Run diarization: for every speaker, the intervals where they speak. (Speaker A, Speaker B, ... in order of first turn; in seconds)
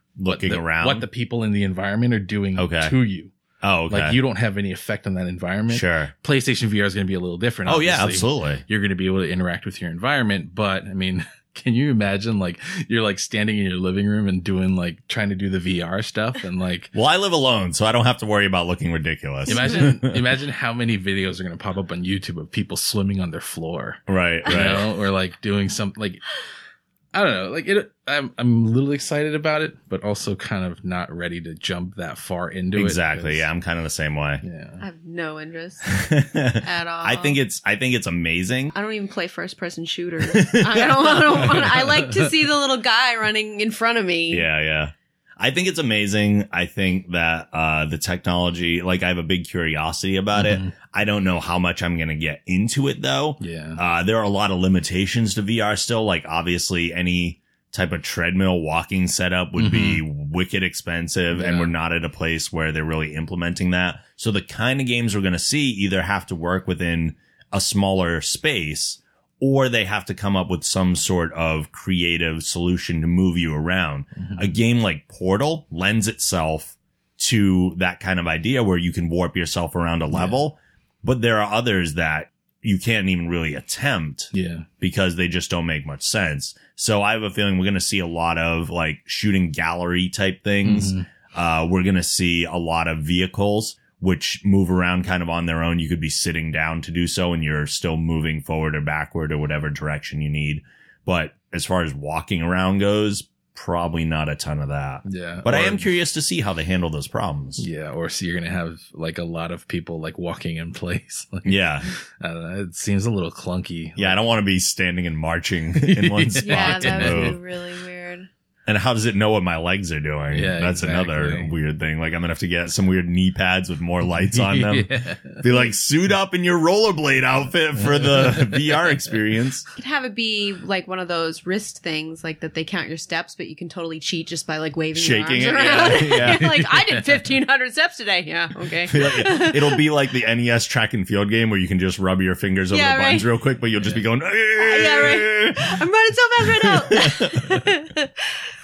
Speaker A: 0.2-1.1, 2.6-3.0, 3.6-4.2, 5.7-6.1, 7.7-8.6, 16.9-20.2, 24.1-24.9, 32.8-34.4, 35.9-38.7, 40.3-41.9, 44.3-107.7, 111.4-111.9, 114.0-117.4, 118.7-129.7, 134.9-136.6, 138.9-145.8, 146.6-147.7
Speaker B: 0.2-3.3, 3.9-16.9, 19.5-26.2, 27.1-33.5, 34.4-34.8, 50.3-50.7, 53.4-53.8, 59.6-60.0, 61.3-61.7, 74.2-74.6, 80.1-80.4, 84.3-84.7, 90.6-91.1, 105.0-105.9, 107.6-114.2, 115.8-117.4, 120.3-121.5, 124.2-125.5, 128.0-128.7
Speaker C: 19.5-19.9, 34.8-36.1, 36.6-37.4, 38.7-44.5, 116.4-118.3, 129.8-139.8, 142.7-143.3, 144.6-148.1